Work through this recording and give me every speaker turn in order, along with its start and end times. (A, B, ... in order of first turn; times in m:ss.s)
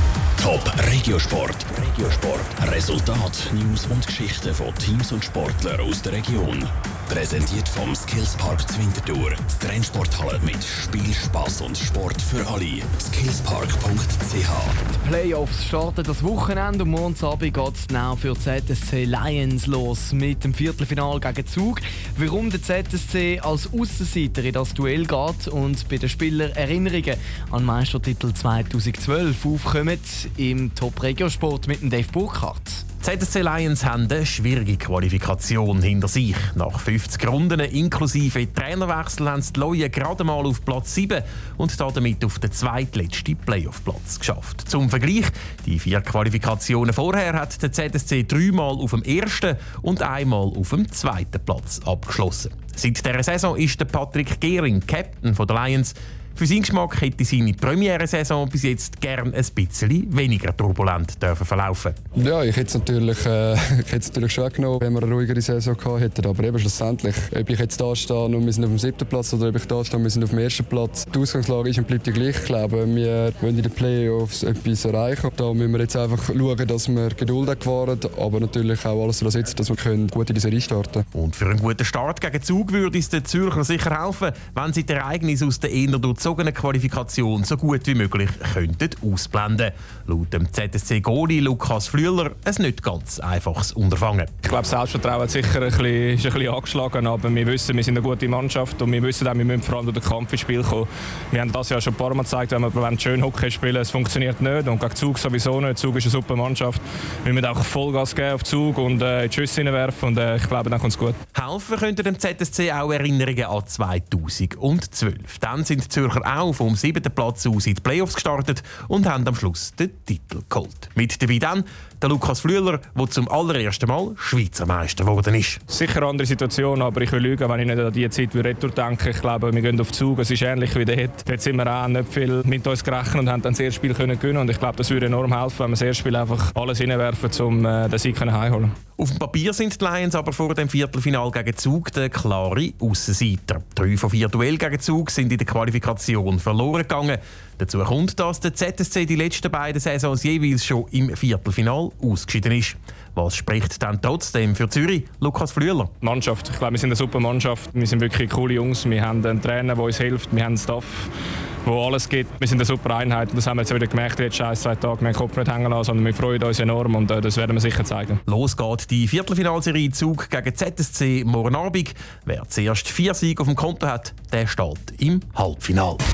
0:00.4-0:14.8 A
0:14.9-0:32.8 B
0:33.0-1:02.0 C
1:02.2-1:21.0 D
1:21.1-1:34.3 C
1:34.4-1:51.2 E
1:51.4-2:05.6 C
2:05.7-2:18.7 E
2:19.0-2:35.9 C
2:36.0-2:41.1 E
2:41.6-2:48.2 E
2:48.3-2:56.0 C